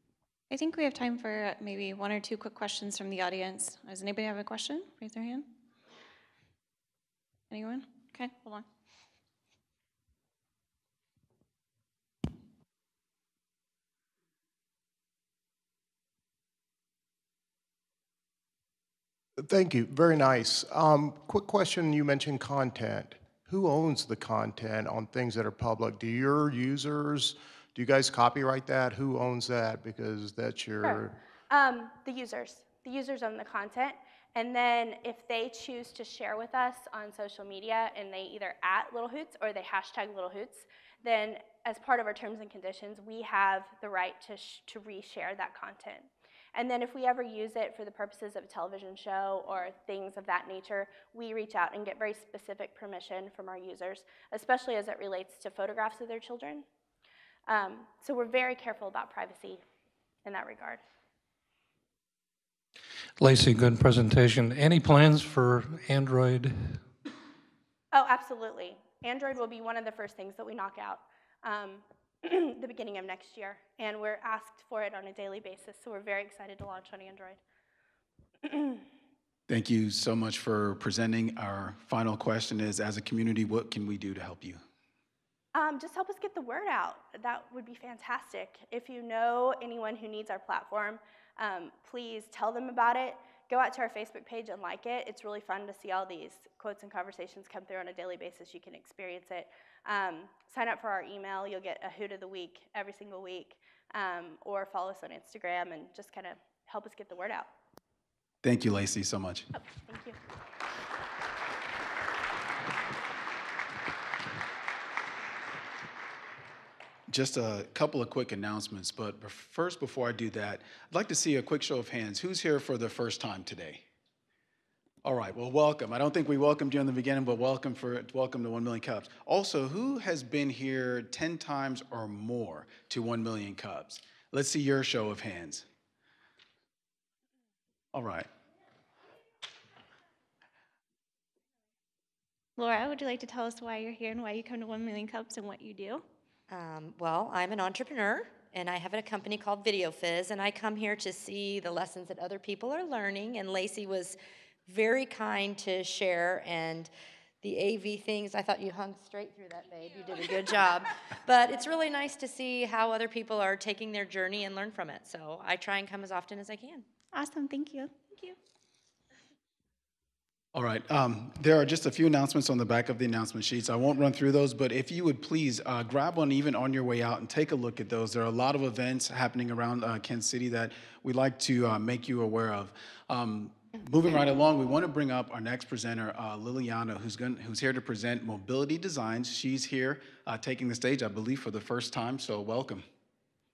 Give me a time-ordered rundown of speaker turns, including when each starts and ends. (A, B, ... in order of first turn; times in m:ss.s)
0:00.5-0:05.5 A
0:07.5-0:08.6 A
0:19.4-0:31.2 B
0:30.8-0:56.6 C
0:57.5-0:59.6 C
1:00.2-1:00.8 C
1:03.2-1:06.8 D
1:07.9-1:17.4 C
1:18.4-1:18.8 C
1:19.5-1:24.6 E
1:25.5-1:47.5 C
1:48.4-1:49.5 E
1:49.5-1:50.2 C
1:57.1-2:03.8 E
2:05.0-2:15.6 E
2:17.9-2:18.3 E
2:22.6-2:26.0 A
2:26.5-2:36.9 F
2:37.4-2:46.8 F
2:47.1-2:48.4 A
2:50.5-3:12.8 E